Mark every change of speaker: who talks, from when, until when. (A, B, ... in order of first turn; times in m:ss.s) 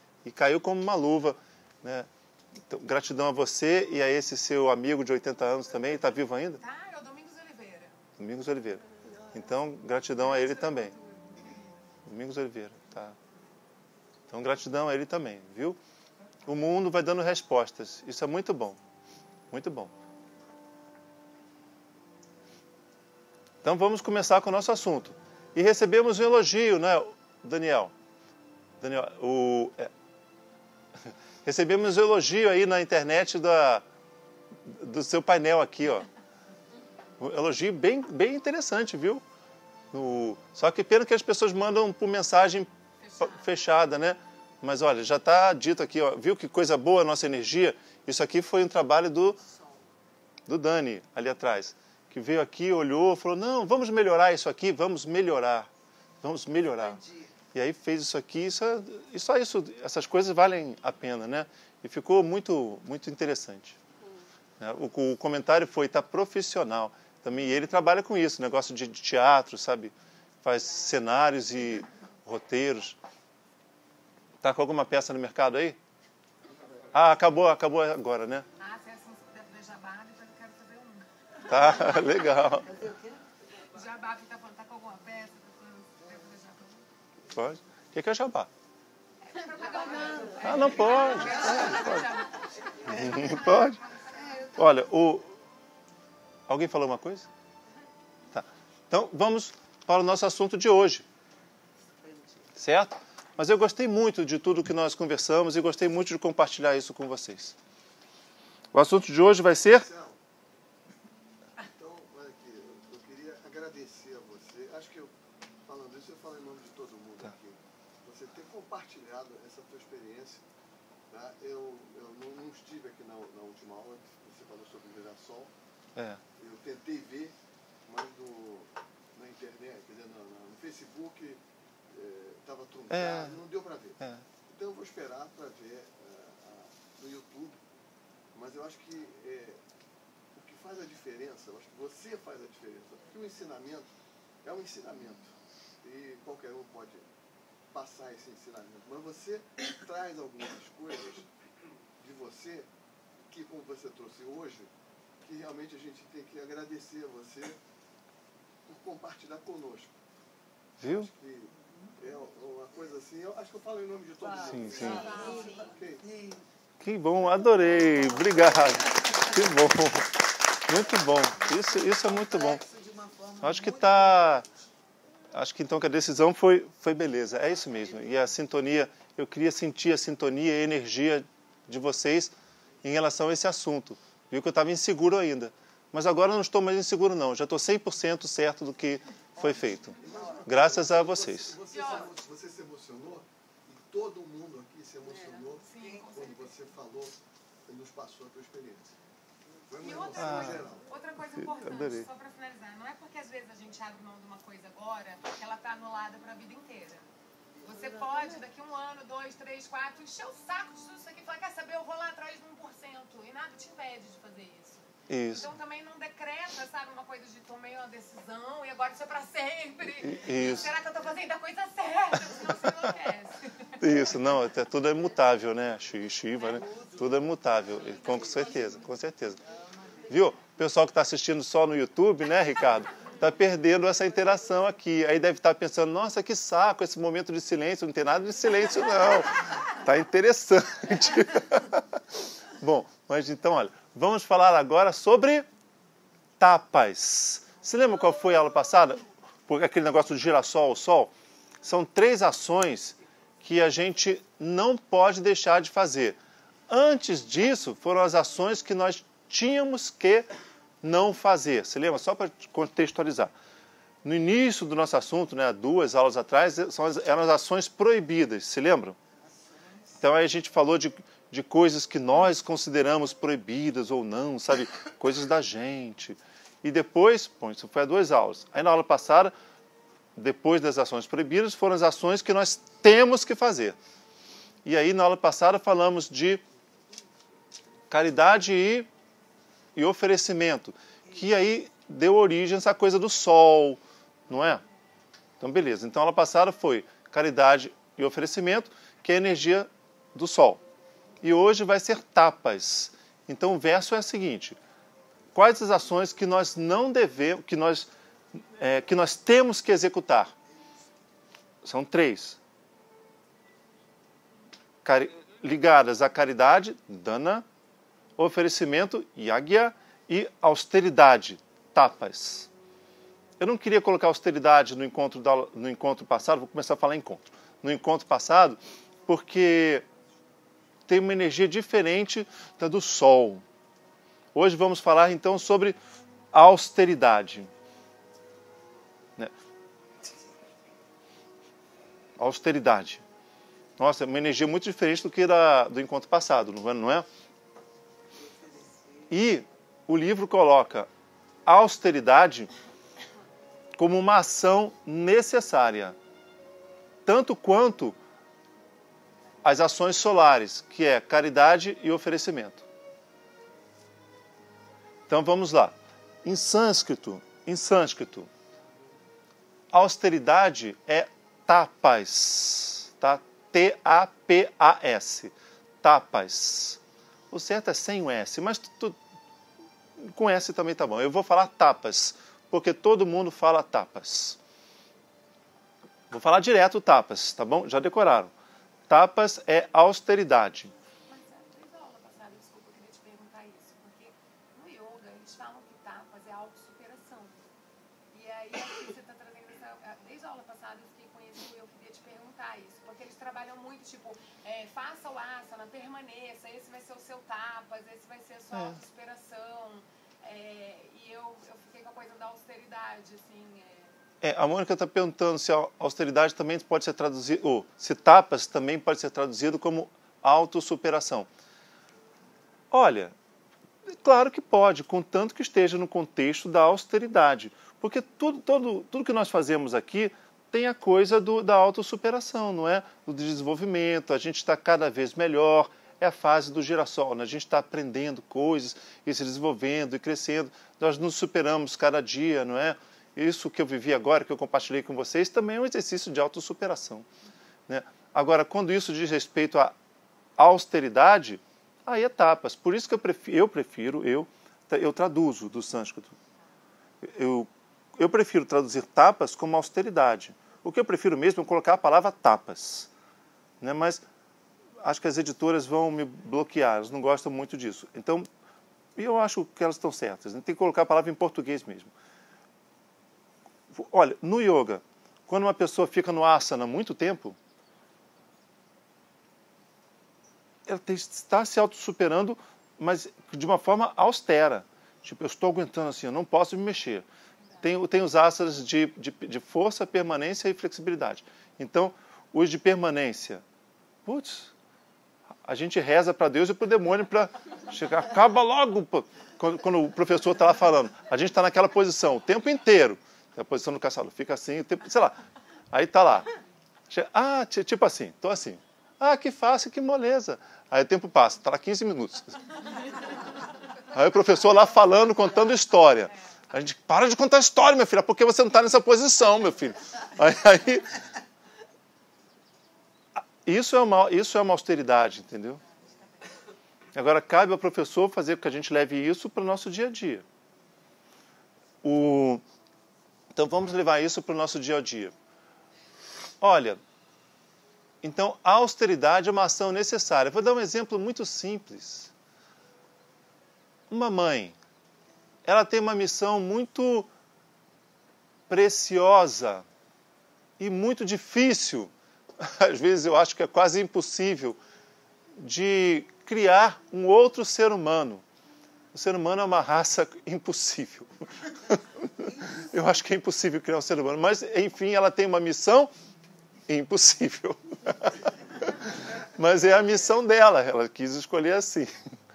0:00.2-0:02.1 A
0:02.7-0:06.6 A
0:06.6-0:08.0 B
0:08.2-0:10.9 A
0:10.2-0:11.6 B
0:12.0-0:13.2 A
0:14.3-0:15.8 A
0:16.4-0:18.8 A
0:19.5-0:19.9 A
0:23.6-0:27.9 A
0:28.8-0:29.9 A
0:31.4-0:33.8 A
0:34.6-0:36.1 A
0:37.2-0:39.2 A
0:39.9-0:49.4 A
0:43.0-0:43.5 B
0:49.4-0:49.8 C
0:50.5-0:55.7 A
0:56.2-0:57.0 A
0:56.7-0:57.3 C
0:57.5-1:03.8 A
1:04.6-1:13.0 A
1:14.4-1:15.8 A
1:16.9-1:18.4 A
1:18.6-1:22.0 B
1:21.5-1:22.7 A
1:22.5-1:23.2 C
1:23.7-1:26.8 B
1:27.3-1:28.5 A
1:29.2-1:34.2 B
1:29.6-1:32.1 C
1:30.4-1:32.1 A
1:32.8-1:33.4 C
1:32.8-1:33.8 A
1:34.0-1:34.8 C
1:34.6-1:35.3 A
1:36.5-1:37.3 A
1:38.3-1:41.0 A
1:41.8-1:42.5 C
1:42.6-1:47.6 A
1:48.7-1:49.9 A
1:49.7-1:50.2 D
1:51.6-1:55.1 D
1:55.6-2:00.4 D
2:01.1-2:05.5 D
2:06.0-2:06.2 A
2:06.4-2:17.6 D
2:12.9-2:13.4 A
2:14.0-2:14.2 A
2:18.3-2:19.6 D
2:20.3-2:23.9 D
2:24.4-2:27.1 D
2:27.7-2:31.3 D
2:32.0-2:32.7 D
2:33.2-2:34.7 D
2:35.2-2:37.6 D
2:38.6-2:40.0 D
2:40.8-2:41.1 A
2:40.8-2:46.0 D
2:44.2-2:46.4 C
2:44.5-2:45.1 A
2:44.6-2:45.7 B
2:46.8-2:52.6 A
2:51.8-2:54.4 C
2:53.4-2:54.4 A
2:55.3-3:11.6 A
3:10.0-3:19.0 D
3:10.0-3:10.4 C
3:11.7-3:12.1 B
3:15.0-3:16.1 C
3:15.6-3:16.5 B
3:19.6-3:20.9 D
3:19.8-3:27.1 B
3:20.2-3:20.6 A
3:21.3-3:22.1 A
3:27.6-3:44.1 B
3:35.1-3:35.5 A
3:40.0-3:40.7 A
3:43.8-3:49.4 A
3:46.4-3:48.7 C
3:49.6-3:50.0 C
3:50.1-4:05.4 A
4:06.4-4:16.2 A
4:16.7-4:20.3 A
4:20.8-4:23.3 A
4:24.0-4:29.0 A
4:29.2-4:30.0 C
4:30.0-4:39.3 A
4:40.2-4:43.8 A
4:44.6-4:46.4 A
4:47.9-4:48.9 A
4:49.7-4:54.6 A
4:55.4-5:00.6 A
5:01.2-5:04.6 A
5:05.3-5:10.3 A
5:11.6-5:12.4 A
5:14.8-5:17.4 A
5:18.2-5:22.5 A
5:23.4-5:29.8 A
5:30.9-5:33.4 A
5:34.3-5:35.8 A
5:36.3-5:37.5 A
5:42.2-5:43.0 A
5:43.8-5:47.0 A
5:48.1-5:49.1 C
5:49.1-5:50.9 A
5:51.4-5:52.5 A
5:53.8-5:56.0 A
5:57.0-5:58.0 A
5:59.4-6:02.6 A
6:05.1-6:08.3 A
6:09.7-6:16.8 A
6:17.3-6:19.0 A
6:20.0-6:24.4 A
6:26.1-6:28.3 A
6:28.9-6:30.7 A
6:31.1-6:37.5 B
6:38.1-6:54.0 B
6:48.5-6:48.8 A
6:54.2-7:01.3 A
7:02.7-7:03.1 A
7:03.9-7:27.1 A
7:27.7-7:29.7 A
7:30.4-7:36.2 A
7:37.0-7:42.9 A
7:43.6-7:44.0 A
7:44.8-7:48.3 A
7:49.0-7:51.9 A
7:53.7-7:57.4 A
8:00.6-8:07.0 A
8:07.6-8:13.4 A
8:14.0-8:14.5 A
8:15.4-8:26.3 A
8:26.9-8:32.4 A
8:33.9-8:41.0 A
8:43.4-8:45.6 A
8:46.9-8:50.2 A
8:51.8-8:52.4 A
8:53.3-8:55.1 A
8:56.4-8:56.8 A
8:58.0-9:02.1 A
9:03.9-9:04.6 A
9:05.4-9:07.1 A
9:08.5-9:09.6 A
9:10.6-9:14.6 A
9:15.3-9:18.2 A
9:18.9-9:25.9 A
9:22.2-9:22.7 C
9:26.7-9:32.1 A